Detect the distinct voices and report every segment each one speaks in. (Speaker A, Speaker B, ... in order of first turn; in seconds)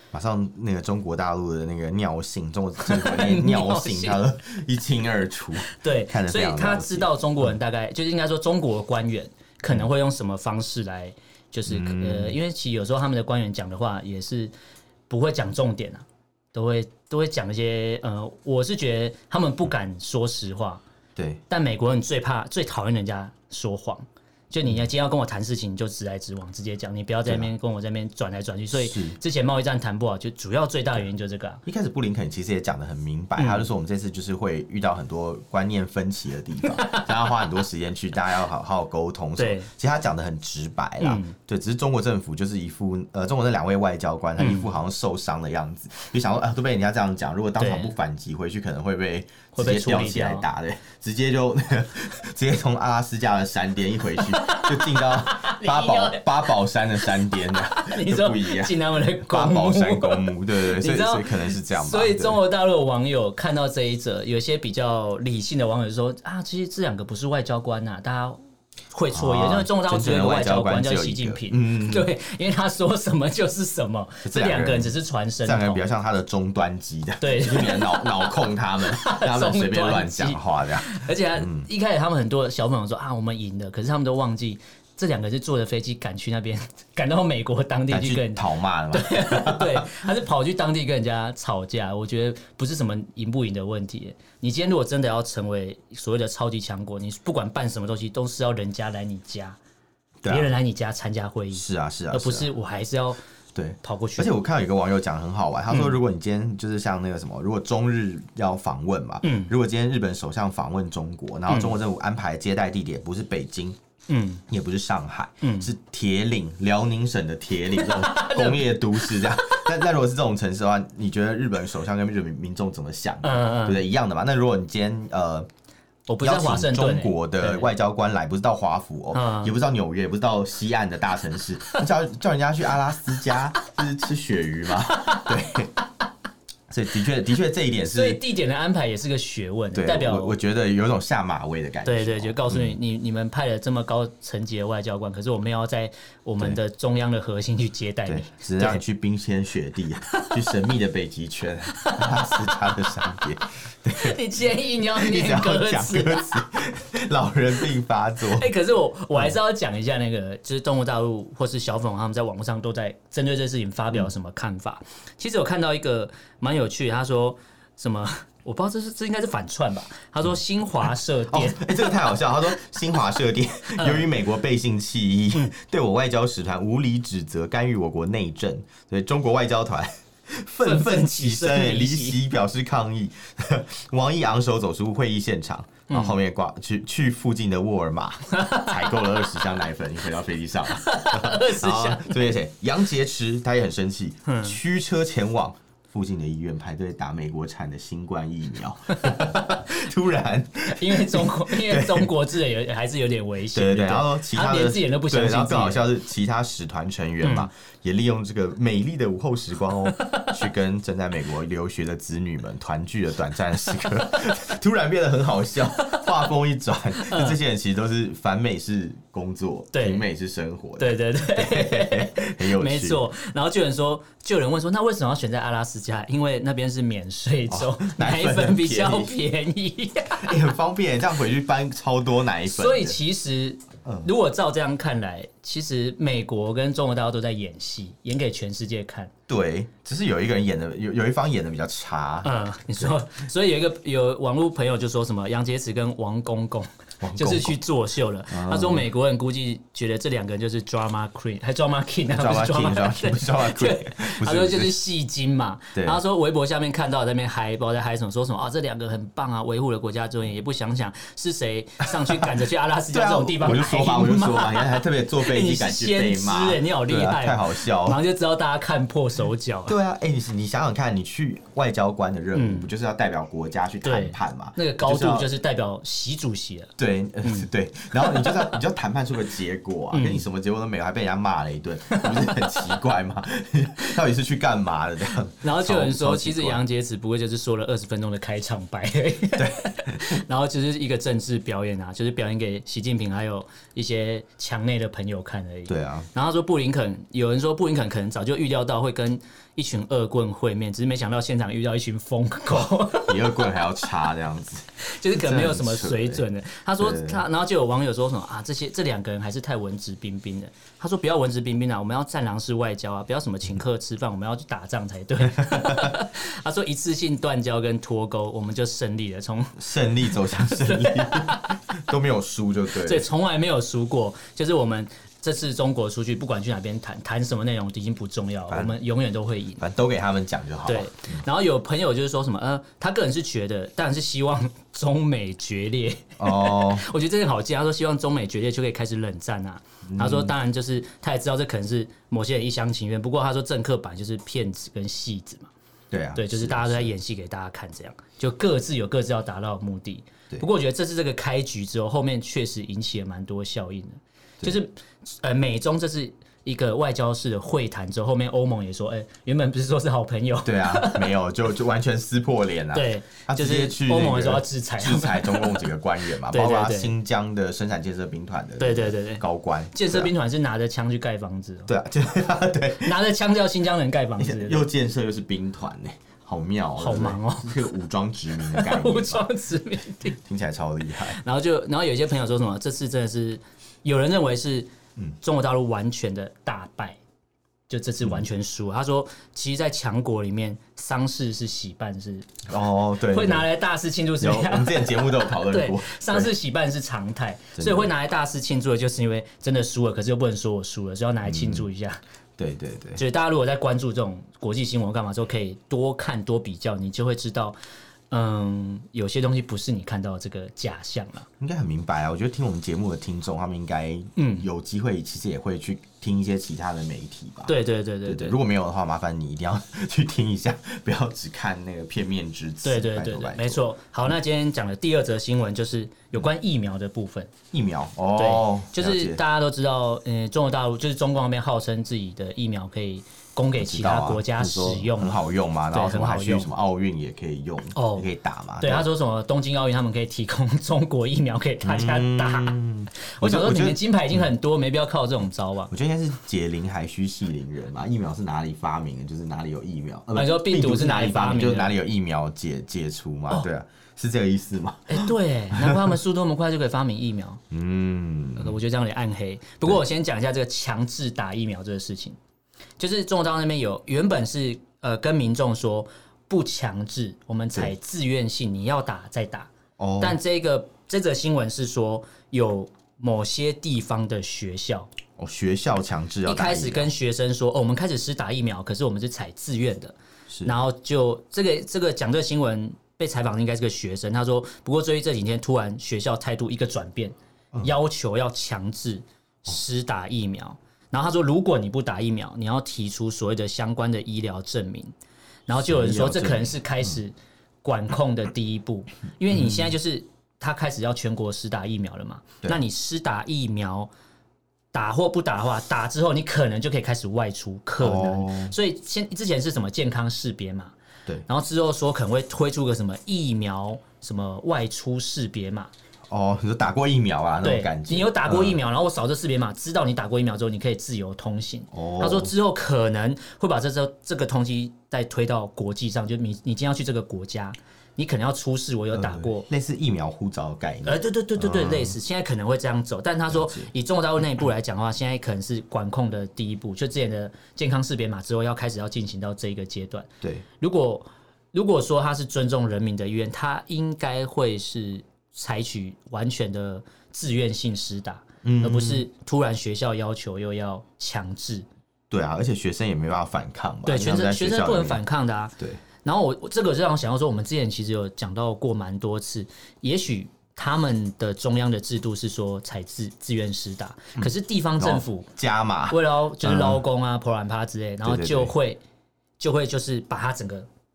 Speaker A: 0.1-7.5, 11.7-12.4, 21.2-21.4, 27.3-27.5, 28.7-29.2, 31.6-62.4, 69.1-72.1, 74.2-81.7, 87.9-89.9, 100.2-100.5, 101.5-102.5, 103.5-113.8, 114.5-125.5, 126.2-135.7, 136.7-138.2, 139.8-142.8, 148.1-154.2, 154.9-158.5, 171.3-202.1, 203.5-223.0, 227.5-229.2, 230.2-233.0, 233.8-234.1, 239.3-242.9, 247.0-247.6, 248.3-248.9, 252.1-254.8, 255.7-256.0, 262.9-268.0, 269.7-275.3, 276.8-286.6, 289.4-290.2, 295.7-296.1, 303.0-306.2, 306.8-307.2, 315.4-315.9, 319.6-323.1, 328.5-328.8, 329.6-331.2, 336.2-336.9, 339.9-340.3, 345.9-346.9, 360.4-370.1, 371.7-373.0, 374.2-379.3, 380.2-381.2, 392.5-393.5, 394.2-396.3, 397.6-397.9, 401.2-401.7, 402.4-403.0, 411.4-423.7, 427.5-429.2, 433.6-438.9, 441.6-444.3, 445.7-455.8, 457.5-458.6, 469.8-470.2, 475.2-476.9, 495.5-497.0, 499.3-499.8, 507.8-508.6, 516.1-518.6, 521.7-522.3, 528.9-532.0, 533.3-533.7, 548.4-549.1, 552.1-555.0, 564.2-566.8, 568.0-568.5
Speaker B: 2.8-4.2, 5.7-14.5, 15.1-20.8, 21.5-31.6, 33.4-33.7, 36.6-37.3, 39.4-39.7, 41.0-41.4, 44.4-44.7, 47.6-47.9, 49.5-50.5, 54.2-56.2, 57.0-68.4, 68.9-75.8, 77.2-99.6, 100.3-103.2, 103.8-104.3, 109.2-109.5, 111.5-111.8, 114.1-114.4, 115.4-115.7, 117.7-119.7, 123.2-123.8, 126.1-127.7, 129.1-129.6, 134.8-135.4, 137.8-140.4, 141.8-148.8, 151.8-153.2, 153.9-156.5, 158.2-172.2, 173.8-174.1, 180.6-182.2, 185.9-186.2, 188.3-189.4, 190.7-192.3, 194.3-194.6, 199.0-199.4, 200.7-205.8, 207.2-207.5, 210.0-210.3, 217.0-217.4, 219.7-220.1, 220.8-230.4, 232.4-239.1, 242.2-269.8, 272.3-272.7, 273.8-276.7, 277.2-278.6, 279.9-280.3, 281.9-282.6, 285.4-303.6, 304.8-319.6, 320.1-321.6, 322.7-329.6, 330.7-345.5, 346.1-361.1, 362.7-366.9, 368.6-371.7, 372.8-374.6, 376.8-377.7, 378.4-380.2, 381.0-384.7, 385.2-387.0, 387.7-392.4, 393.1-402.0, 403.0-407.6, 408.1-411.3, 414.2-414.5, 417.5-418.4, 422.6-427.3, 428.1-435.2, 435.7-436.5, 437.8-438.1, 438.6-442.6, 443.2-445.7, 450.1-451.7, 454.9-457.4, 458.4-462.2, 462.8-474.9, 476.2-494.9, 495.5-503.9, 504.7-510.7, 511.3-515.7, 517.4-529.5, 530.9-551.7, 553.9-565.3, 565.9-568.8, 569.4-570.7